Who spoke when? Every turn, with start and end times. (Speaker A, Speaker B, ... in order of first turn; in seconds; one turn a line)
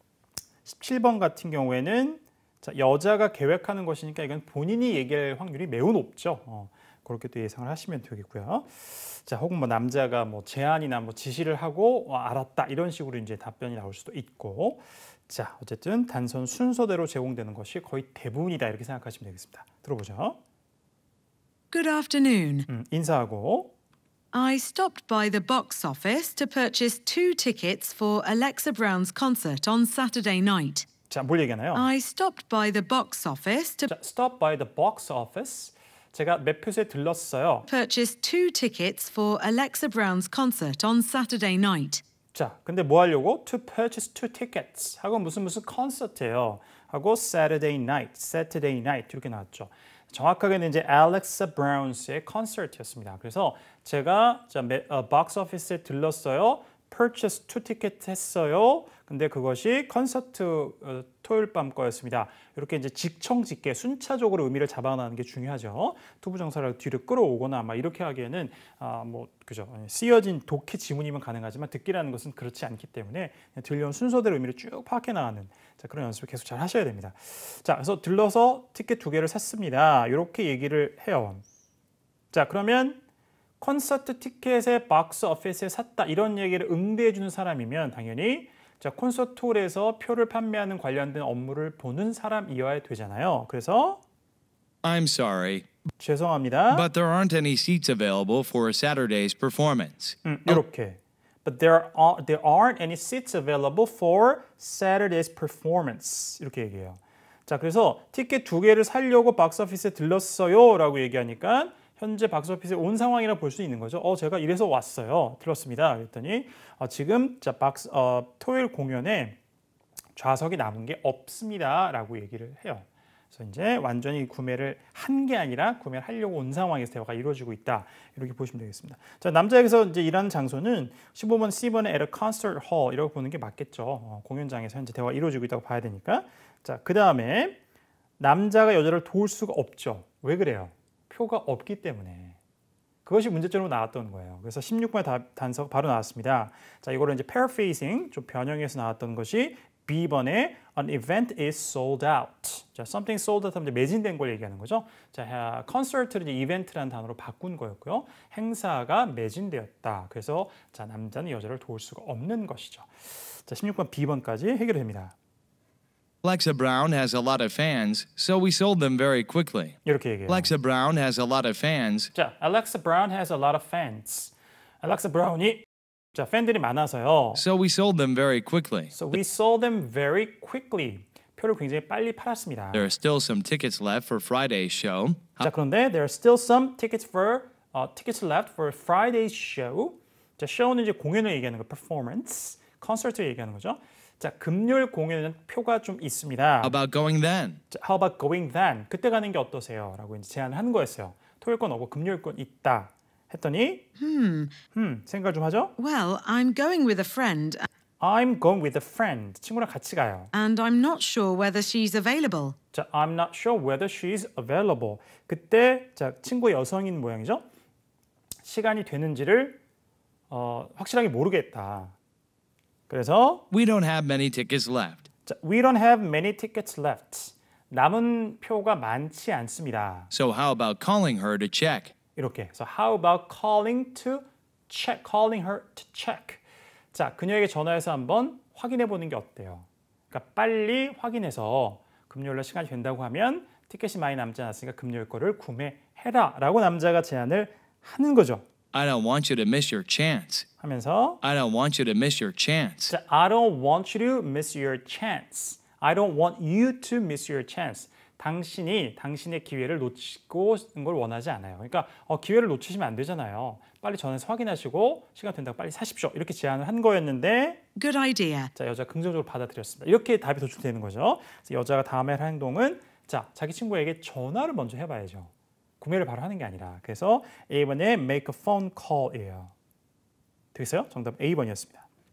Speaker A: 0.7-20.4
Speaker B: 21.7-22.7
Speaker A: 22.7-23.7
Speaker B: 24.3-30.9
Speaker A: 31.1-31.9
Speaker B: 31.7-33.9
Speaker A: 33.9-37.7
Speaker B: 37.7-42.0
Speaker A: 42.3-81.4
Speaker A: 82.3-83.0
Speaker A: 83.6-94.0
Speaker C: 94.8-95.7
Speaker A: 96.0-96.9
Speaker C: 96.7-100.6
Speaker A: 100.2-119.4
Speaker A: 120.2-137.6
Speaker A: 138.2-142.4
Speaker A: 143.1-165.2
Speaker C: 166.2-172.1
Speaker A: 169.8-170.5
Speaker A: 172.1-177.4
Speaker C: 177.3-179.0
Speaker A: 178.9-182.9
Speaker C: 182.7-185.5
Speaker A: 185.4-196.8
Speaker C: 196.6-197.6
Speaker A: 197.7-203.9
Speaker B: 204.0-204.6
Speaker A: 204.7-205.8
Speaker B: 205.8-207.7
Speaker A: 208.0-210.3
Speaker B: 210.3-212.6
Speaker A: 212.7-217.4
Speaker A: 218.4-219.6
Speaker A: 220.3-221.9
Speaker A: 222.9-223.4
Speaker C: 223.5-225.1
Speaker A: 225.3-230.1
Speaker C: 230.1-231.9
Speaker A: 232.2-248.4
Speaker C: 248.7-250.5
Speaker A: 250.6-251.2
Speaker C: 251.2-252.9
Speaker A: 252.9-267.6
Speaker B: 267.8-268.5
Speaker A: 268.5-279.5
Speaker A: 280.5-281.9